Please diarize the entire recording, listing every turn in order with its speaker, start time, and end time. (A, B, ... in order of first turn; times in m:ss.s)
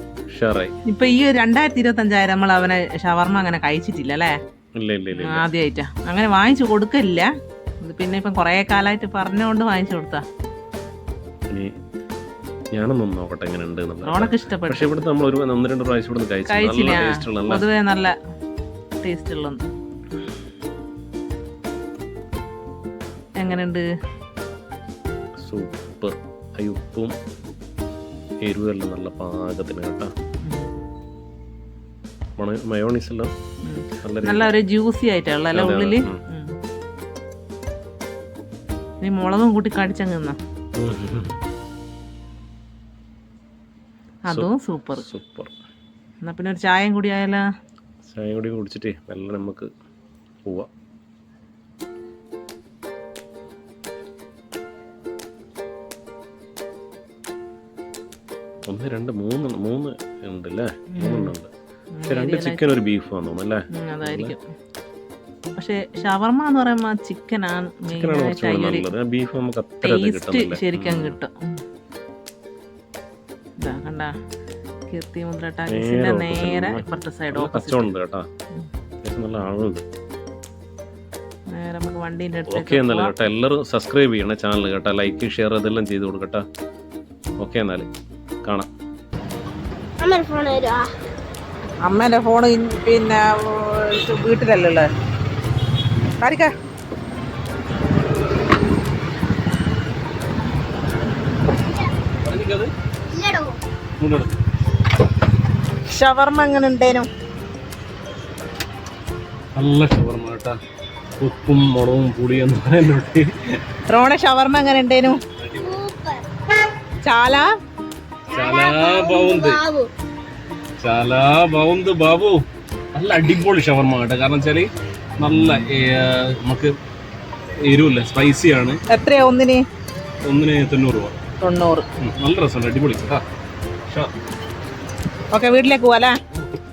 0:00.3-0:00.7 A
0:00.9-0:04.4 B
0:04.8-0:05.5 A
0:05.2-0:07.3 B
0:07.8-0:10.2 B
0:12.7-0:17.7 A
0:14.1-0:15.0 B
0:16.5-0:18.2 B
0:19.0-0:19.6 B
0:23.4-0:23.8 B
0:25.4-0:27.2 A
0:28.4-0:30.1 A
0:30.4-0:30.7 B
0:32.4-0:33.3 A
0:33.7-0:36.6 B
0:34.0-0:34.5 A
0:35.5-0:36.2 A
0:39.0-0:40.4 B
0:40.8-0:41.4 A
0:44.3-0:45.0 B
0:44.3-0:45.5 A
0:46.2-0:47.4 B
0:48.1-0:49.7 A
0:58.7-1:01.5 A
1:00.9-1:01.3 B
1:02.0-1:02.7 B
1:02.1-1:04.4 A
1:03.8-1:04.4 B
1:05.6-1:08.9 B
1:07.9-1:11.2 A
1:09.8-1:11.6 B
1:13.6-1:14.1 B
1:14.9-1:17.9 B
1:15.7-1:18.3 A
1:19.0-1:19.8 A
1:21.5-1:23.2 B
1:22.5-1:26.4 A
1:27.4-1:27.9 A
1:28.4-1:28.7 A
1:30.0-1:30.9 C
1:31.8-1:34.9 B
1:36.2-1:36.5 B
1:42.2-1:42.7 A
1:43.1-1:43.6 C
1:44.0-1:44.4 A
1:45.9-1:47.1 B
1:49.6-1:50.6 A
1:51.2-1:53.6 A
1:53.9-1:55.2 B
1:55.4-1:55.8 A
1:55.6-1:56.2 C
1:57.0-1:57.5 B
1:58.3-1:59.6 A
1:58.3-1:59.9 C
2:00.8-2:04.7 A
2:05.2-2:06.7 A
2:07.6-2:08.8 A
2:08.9-2:09.6 B
2:10.3-2:11.2 A
2:11.4-2:11.9 B
2:12.0-2:13.2 A
2:13.9-2:14.1 A
2:15.3-2:16.2 B